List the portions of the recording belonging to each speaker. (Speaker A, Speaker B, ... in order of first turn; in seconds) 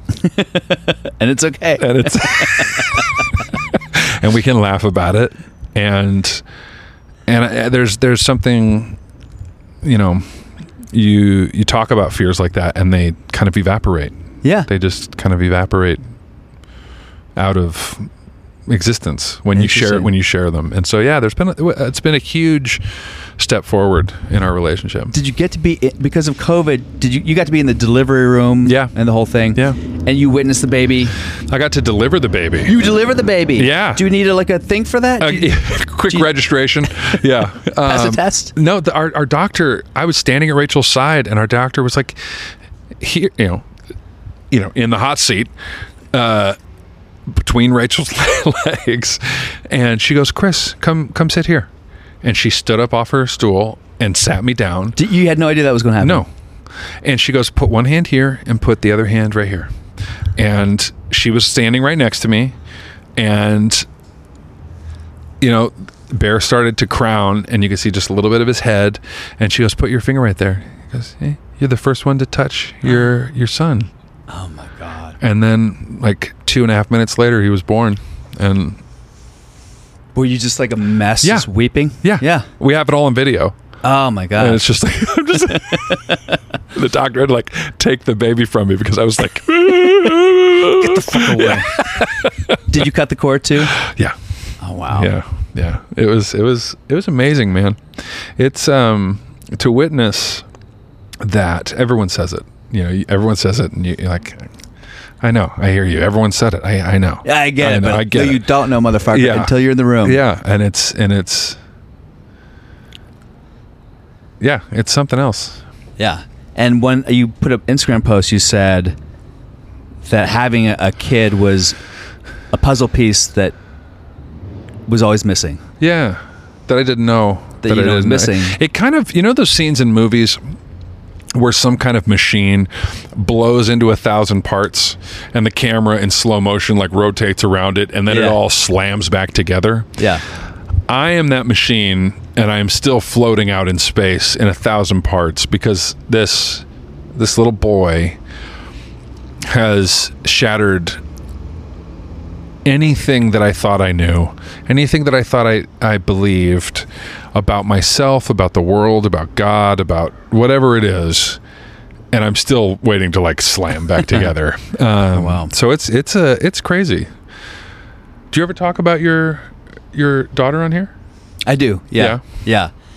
Speaker A: 0.2-3.3, 14.4-14.7, 19.5-20.1, 25.1-31.1, 32.6-36.3, 36.9-37.2, 37.8-38.5, 55.0-56.2, 74.3-75.2, 80.1-82.5, 83.8-84.6, 85.5-86.2, 90.7-91.8, 92.7-93.8, 94.6-95.1, 107.2-110.2, 116.0-119.0, 120.0-121.8, 122.5-123.5, 124.9-125.6, 127.6-128.6, 138.1-138.4, 140.0-140.2, 165.1-165.5, 171.4-172.7
Speaker B: 1.8-6.4, 7.3-9.0, 9.8-10.3, 10.9-16.0, 17.4-18.1, 18.7-22.8, 23.4-25.1, 28.6-28.9, 31.5-32.8, 33.6-34.0, 35.2-42.5, 43.0-43.7, 44.5-45.5, 46.1-46.6, 47.3-51.7, 52.2-55.0, 56.0-56.3, 57.0-59.7, 60.4-62.6, 63.2-63.9, 65.4-73.9, 75.2-78.8, 81.2-81.5, 82.0-83.6, 84.4-86.0, 86.7-92.6, 93.6-94.2, 94.9-97.8, 98.4-100.5, 101.2-104.5, 105.2-108.5, 109.1-111.6, 114.4-115.6, 125.8-130.4, 131.3-140.0, 140.9-148.2, 149.4-151.0, 152.6-161.4, 162.1-167.1, 168.3-170.9, 171.9-172.2